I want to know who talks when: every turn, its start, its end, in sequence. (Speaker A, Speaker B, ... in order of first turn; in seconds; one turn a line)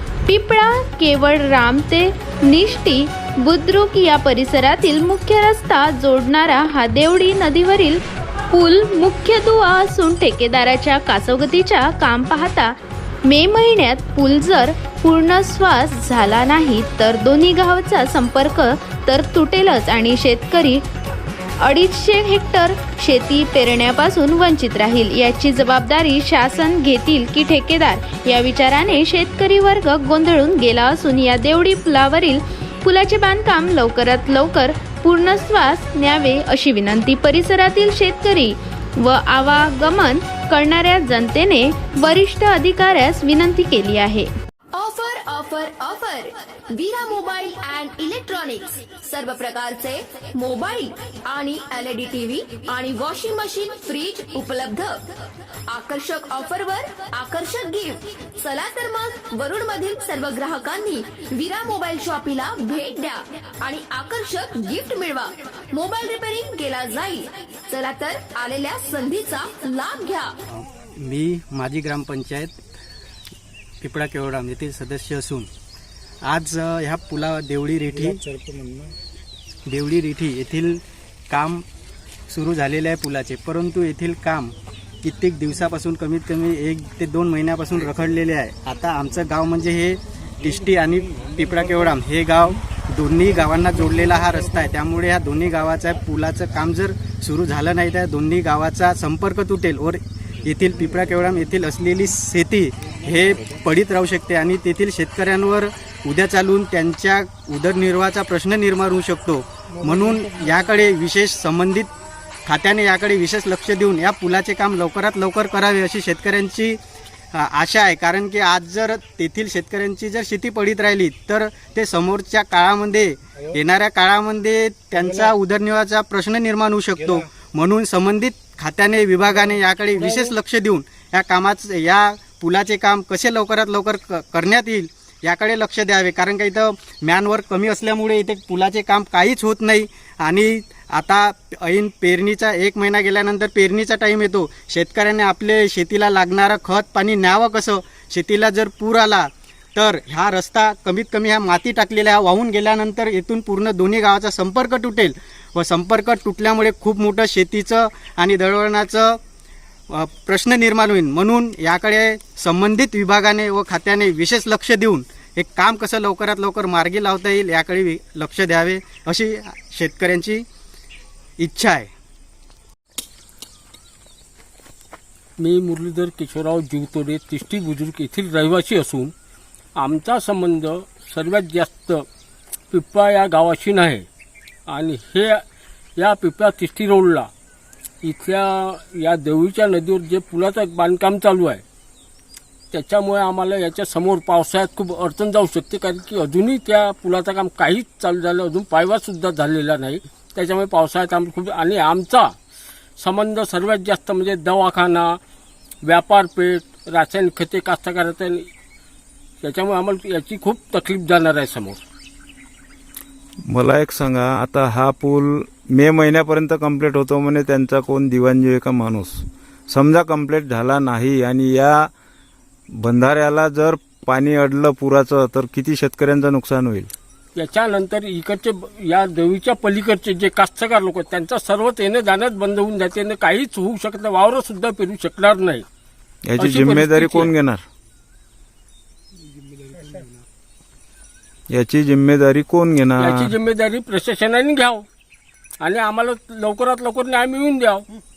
Speaker A: 0.3-20.8
Speaker A: 21.6-44.3
Speaker B: 44.7-55.0
Speaker B: 55.7-70.3
Speaker C: 70.5-72.6
Speaker C: 73.8-75.5
Speaker C: 76.2-78.2
Speaker C: 79.7-81.6
Speaker C: 82.3-111.9
Speaker C: 112.5-116.8
Speaker C: 117.3-159.2
Speaker C: 159.9-170.4
Speaker C: 171.4-171.9
Speaker D: 175.4-179.1
Speaker D: 179.8-182.1
Speaker D: 182.7-184.1
Speaker D: 184.7-185.4
Speaker D: 186.0-187.3
Speaker D: 188.0-191.6
Speaker D: 192.7-202.3
Speaker D: 203.0-205.2
Speaker D: 205.8-208.5
Speaker D: 209.4-211.8
Speaker E: 213.5-221.9
Speaker E: 222.7-226.9
Speaker D: 227.3-235.7
Speaker E: 236.2-237.6
Speaker D: 236.4-237.3
Speaker E: 241.5-243.3
Speaker D: 243.0-244.8
Speaker D: 245.6-247.9